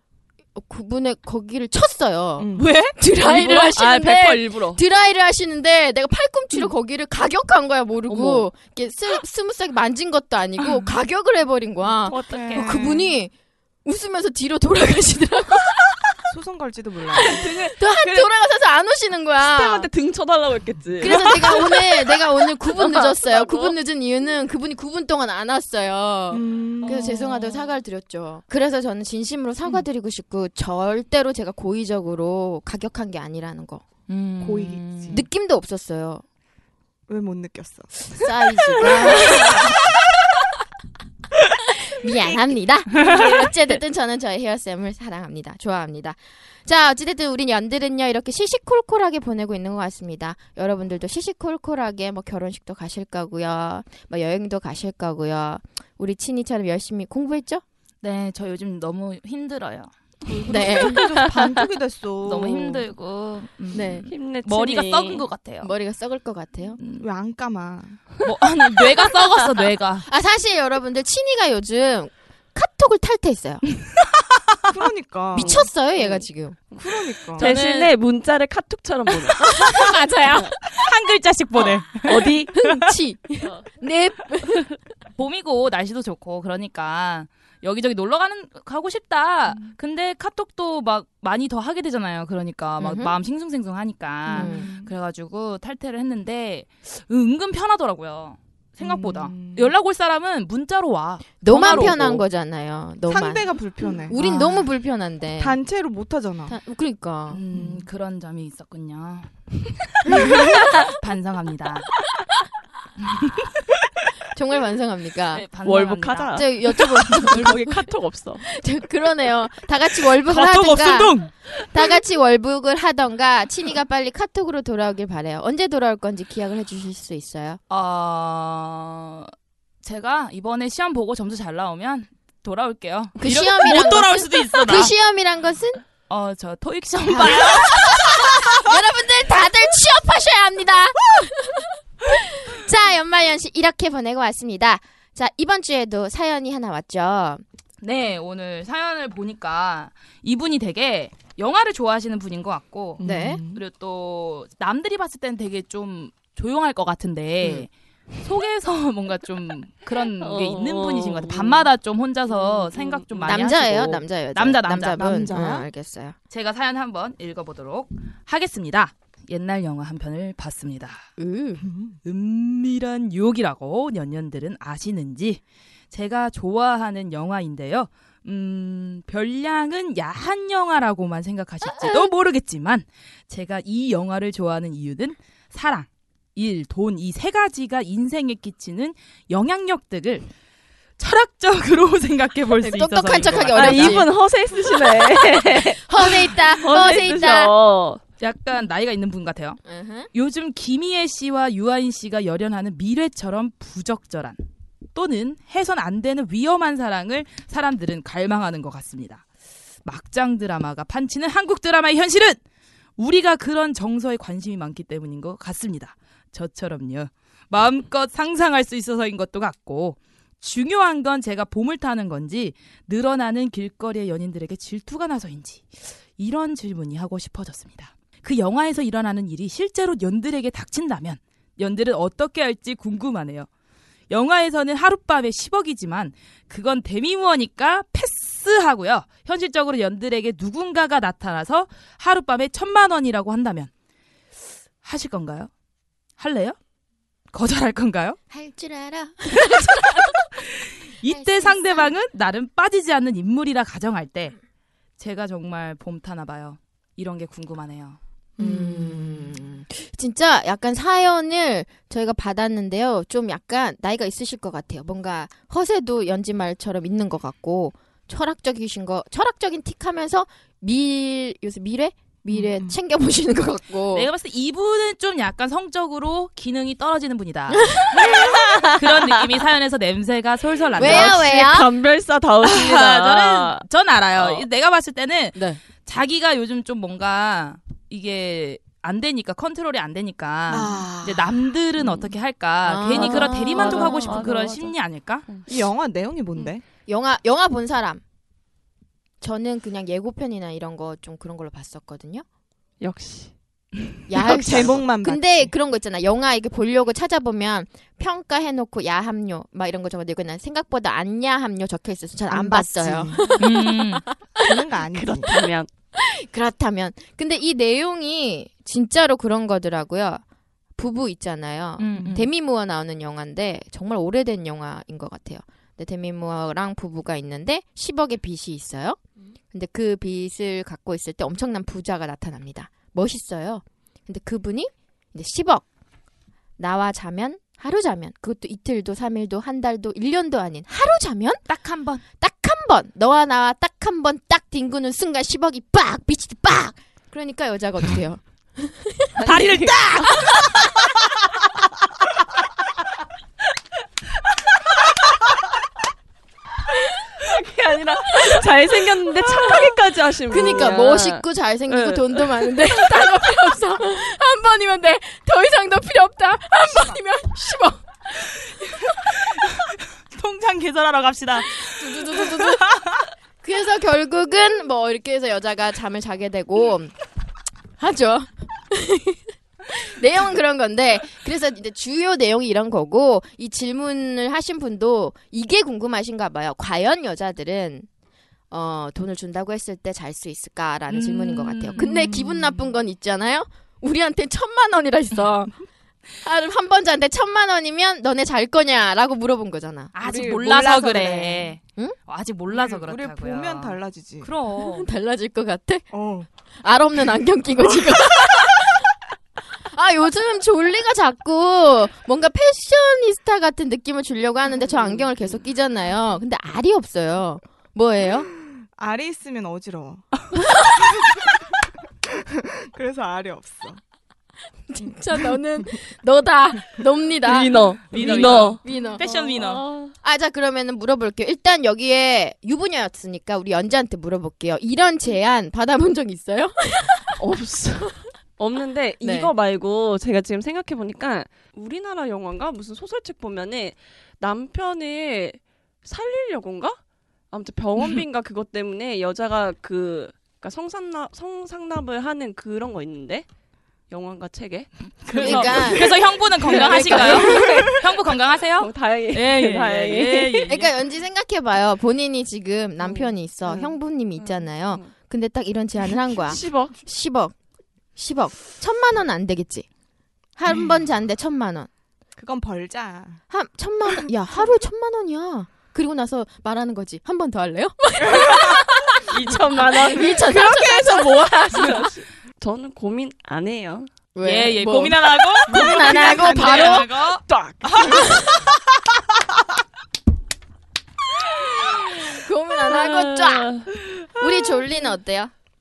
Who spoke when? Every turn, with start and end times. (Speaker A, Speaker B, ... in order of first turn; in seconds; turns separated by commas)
Speaker A: 0.6-13.3, Speaker B: 2.4-2.7, Speaker C: 2.6-3.0, Speaker D: 3.3-4.8, Speaker D: 8.1-8.5, Speaker D: 12.1-12.9, Speaker B: 12.3-13.1, Speaker A: 13.8-16.1, Speaker B: 16.3-17.5, Speaker A: 17.2-19.9, Speaker D: 17.2-18.3, Speaker D: 19.4-23.8, Speaker A: 21.0-33.8, Speaker B: 26.3-27.2, Speaker D: 26.8-27.2, Speaker C: 34.1-35.2, Speaker B: 34.4-35.2, Speaker A: 35.1-36.2, Speaker B: 37.1-39.6, Speaker A: 38.1-39.8, Speaker A: 41.7-57.6, Speaker C: 58.0-59.9, Speaker B: 60.3-62.9, Speaker A: 60.5-61.1, Speaker C: 62.2-65.7, Speaker A: 63.7-64.1, Speaker D: 64.1-65.2, Speaker A: 65.6-66.8, Speaker C: 66.8-67.1, Speaker B: 67.0-68.0, Speaker C: 68.2-70.1, Speaker A: 70.1-73.6, Speaker B: 74.7-75.6, Speaker A: 75.3-76.6, Speaker D: 75.4-80.5, Speaker B: 76.8-77.5, Speaker C: 77.4-77.9, Speaker C: 79.5-82.9, Speaker A: 79.7-80.5, Speaker D: 81.6-82.6, Speaker A: 82.6-84.7, Speaker C: 85.2-102.2, Speaker A: 92.8-93.1, Speaker B: 94.3-94.9, Speaker A: 94.3-94.7, Speaker B: 98.8-99.7, Speaker A: 101.4-103.5, Speaker B: 103.1-104.2, Speaker A: 104.1-105.6, Speaker C: 104.2-104.6, Speaker B: 105.4-106.6, Speaker A: 106.5-107.4, Speaker C: 107.3-109.3, Speaker B: 107.5-107.8, Speaker B: 110.1-110.4, Speaker C: 110.9-111.9, Speaker C: 113.0-113.4, Speaker A: 114.3-115.5, Speaker C: 115.3-116.4, Speaker D: 115.6-118.5, Speaker A: 116.3-117.8, Speaker A: 118.4-121.2, Speaker C: 120.2-121.3, Speaker A: 121.7-127.6, Speaker C: 127.7-129.3, Speaker C: 129.8-134.9, Speaker A: 133.2-135.8, Speaker C: 136.1-137.8, Speaker B: 137.2-137.7, Speaker A: 137.2-147.4, Speaker C: 147.8-157.7, Speaker B: 153.0-153.6, Speaker A: 153.0-153.4, Speaker A: 157.4-157.7, Speaker C: 158.2-165.2, Speaker D: 160.2-161.7, Speaker D: 162.3-163.4, Speaker A: 163.3-166.2, Speaker B: 164.9-165.7, Speaker C: 166.3-171.1, Speaker A: 171.2-171.7, Speaker B: 171.6-172.0, Speaker C: 172.0-190.3, Speaker A: 181.6-182.1, Speaker C: 191.0-194.0, Speaker A: 192.6-194.1, Speaker D: 193.6-198.0, Speaker A: 194.9-197.5, Speaker C: 198.2-199.6, Speaker A: 199.7-200.1, Speaker C: 200.1-204.4, Speaker C: 204.9-209.2, Speaker C: 209.8-212.4, Speaker C: 213.0-233.5, Speaker C: 234.1-243.7, Speaker C: 244.8-245.5, Speaker C: 246.2-246.6, Speaker C: 247.3-248.2, Speaker A: 248.3-250.3, Speaker C: 250.4-254.4, Speaker A: 251.0-251.9, Speaker C: 255.0-258.0, Speaker B: 258.4-259.3, Speaker A: 258.4-274.1, Speaker B: 272.3-272.8, Speaker C: 273.9-281.2, Speaker A: 277.5-278.4, Speaker A: 280.8-281.7, Speaker D: 280.8-283.6, Speaker C: 282.4-295.2, Speaker D: 284.2-284.4, Speaker A: 285.3-285.6, Speaker A: 290.5-291.4, Speaker A: 292.6-294.3, Speaker D: 292.9-294.7, Speaker B: 295.5-296.6, Speaker A: 296.9-298.0, Speaker A: 299.2-302.2, Speaker D: 302.8-303.3, Speaker A: 304.1-314.6, Speaker B: 304.1-305.5, Speaker B: 312.3-313.3, Speaker C: 313.4-314.0, Speaker B: 314.4-315.5, Speaker D: 314.9-315.7, Speaker A: 316.0-320.2, Speaker A: 320.8-329.0, Speaker C: 321.8-322.3, Speaker A: 329.5-335.7, Speaker A: 336.6-341.4, Speaker C: 341.5-342.0, Speaker A: 342.1-349.2, Speaker D: 349.2-350.1, Speaker C: 349.2-350.5, Speaker D: 357.2-362.7, Speaker A: 360.3-367.9, Speaker B: 366.7-367.0, Speaker C: 369.4-373.1, Speaker A: 371.6-372.6, Speaker A: 373.4-376.9, Speaker A: 377.8-387.9, Speaker A: 388.5-395.5, Speaker C: 390.9-392.2, Speaker A: 396.2-399.9, Speaker C: 399.9-404.9, Speaker B: 400.0-401.5, Speaker B: 402.5-404.3, Speaker A: 404.6-405.8, Speaker B: 405.9-406.3, Speaker A: 406.6-408.9, Speaker A: 409.7-418.3, Speaker B: 418.8-421.2, Speaker B: 422.1-423.8, Speaker A: 424.7-429.0, Speaker B: 424.8-425.7, Speaker D: 427.2-429.9, Speaker C: 427.9-429.6, Speaker A: 430.0-437.2, Speaker D: 437.2-446.8, Speaker A: 439.0-439.3, Speaker D: 447.3-453.3, Speaker D: 453.9-457.8, Speaker C: 455.1-460.7, Speaker A: 455.1-457.6, Speaker B: 456.8-457.6, Speaker D: 458.6-460.5, Speaker A: 460.4-467.3, Speaker D: 462.8-464.9, Speaker D: 466.2-466.8, Speaker A: 467.9-469.7, Speaker A: 470.4-471.7, Speaker B: 472.2-473.2, Speaker A: 473.3-481.8, Speaker B: 478.0-478.6, Speaker D: 479.1-483.9, Speaker A: 484.1-486.9, Speaker C: 484.2-487.2, Speaker B: 485.5-486.9, Speaker D: 487.2-488.2, Speaker A: 487.8-488.4, Speaker D: 491.6-493.7, Speaker A: 492.0-495.3